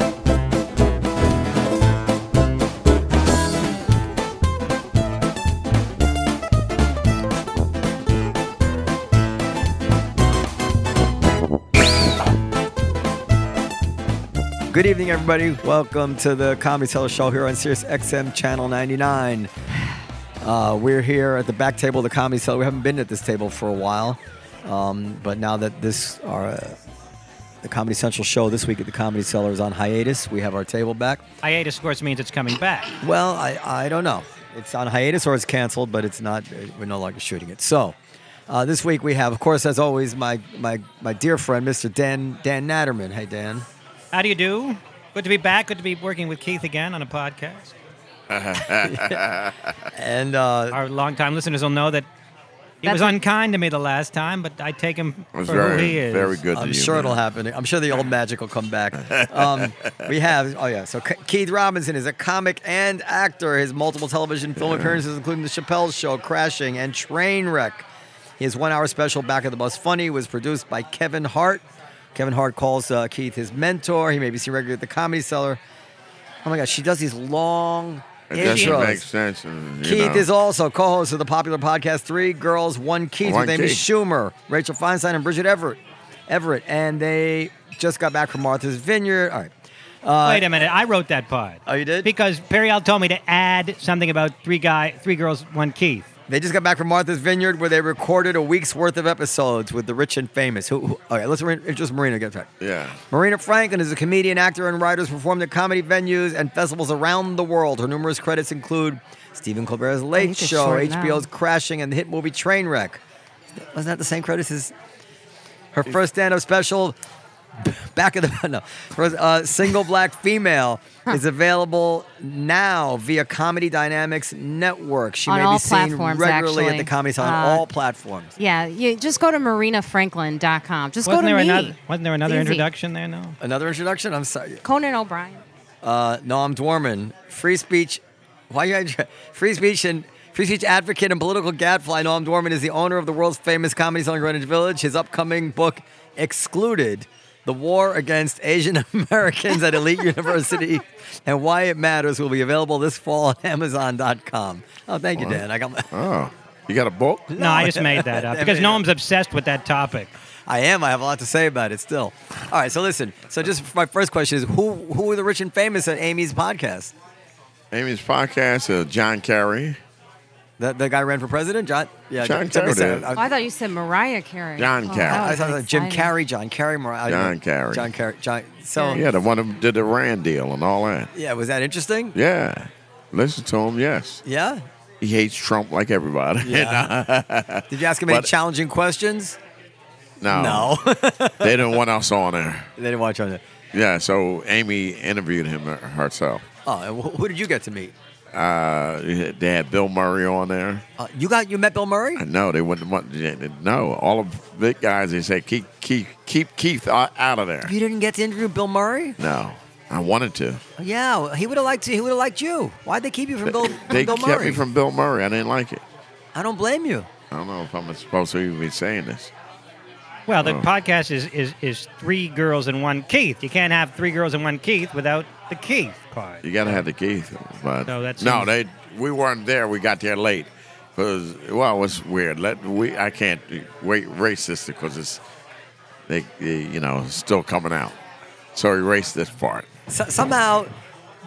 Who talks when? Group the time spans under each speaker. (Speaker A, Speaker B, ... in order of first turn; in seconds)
Speaker A: 14.7-19.5, 20.4-26.8, 27.6-31.2, 33.0-38.0, 38.5-43.6, 48.8-49.2, 49.9-50.8, 56.5-67.9, 68.4-71.6, 72.1-75.6, 76.4-79.0, 79.8-89.5, 90.0-90.5, 91.7-92.1, 96.3-102.5, 103.1-113.0, 113.6-114.7, 115.7-117.0, 117.6-128.3, 133.4-134.6, 135.8-155.9, 157.3-158.8, 160.5-166.9, 170.6-173.3, 175.0-179.1, 181.1-182.2, 184.2-184.6, 186.4-186.9, 187.7-189.4, 190.3-191.8, 192.8-193.4, 196.6-197.9, 201.0-202.2, 207.6-209.2, 210.8-214.6, 216.3-217.1, 239.9-240.7
Speaker B: 31.4-32.9, 44.1-47.7, 50.7-52.0, 52.8-56.4, 78.4-78.9, 90.2-96.1, 131.0-133.3, 157.3-160.1, 220.3-226.8, 227.9-228.5
Speaker C: 48.3-49.9, 55.3-57.1, 59.0-60.0, 64.6-65.0, 78.3-80.3, 83.2-83.8, 102.6-103.0, 155.2-157.4, 167.7-169.8, 172.2-173.1, 174.6-175.3, 177.1-177.9, 178.9-181.1, 182.1-184.2, 185.0-188.3, 190.2-190.8, 191.4-192.7, 193.7-196.4, 198.3-200.8, 202.2-207.7, 209.2-210.6, 213.5-215.8, 217.3-219.3, 220.4-220.7, 226.4-235.2, 236.1-238.0, 238.5-239.7
Speaker D: 52.8-53.2, 110.2-111.3, 125.3-127.6, 128.4-132.7, 134.6-135.4, 173.1-176.1, 178.8-179.0